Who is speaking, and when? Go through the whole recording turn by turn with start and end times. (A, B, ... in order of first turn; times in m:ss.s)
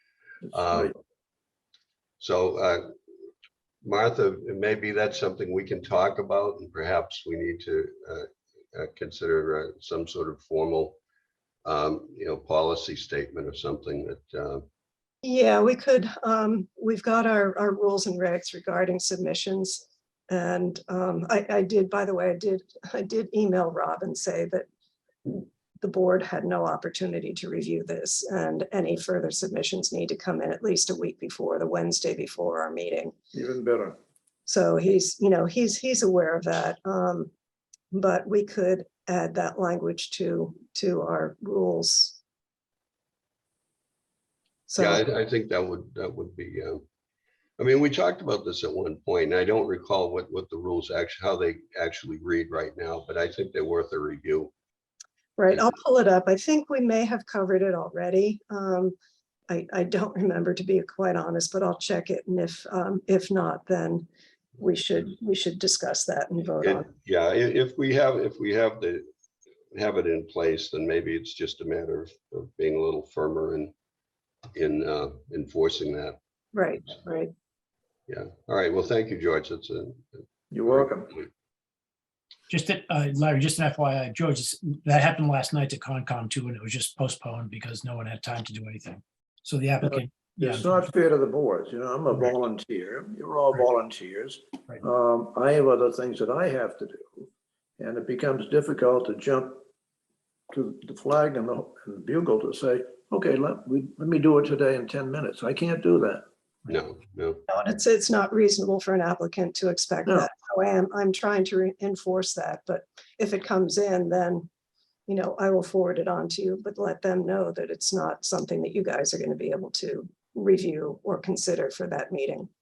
0:00.5-0:00.9 A
0:00.6-0:00.9 B
0:02.2-0:02.9 A
0:03.8-0:11.0 A
0:11.6-0:14.6 A
0:15.2-0:24.6 C
0:25.2-0:33.1 C
0:33.3-0:34.0 B
0:34.4-0:37.3 C
0:37.9-0:42.2 C
0:44.7-0:45.0 C
0:44.8-0:46.8 A
0:47.6-0:54.5 A
0:55.4-0:58.9 C
0:59.5-1:04.1 C
1:04.6-1:06.9 C
1:06.6-1:09.0 A
1:09.7-1:13.7 A
1:14.5-1:16.2 A
1:16.5-1:17.3 C
1:18.1-1:21.2 A
1:20.5-1:21.1 B
1:22.5-1:30.9 D
1:29.8-1:39.6 B
1:40.5-1:46.2 B
1:46.7-1:47.4 A
1:47.5-1:54.5 C
1:55.1-2:02.5 C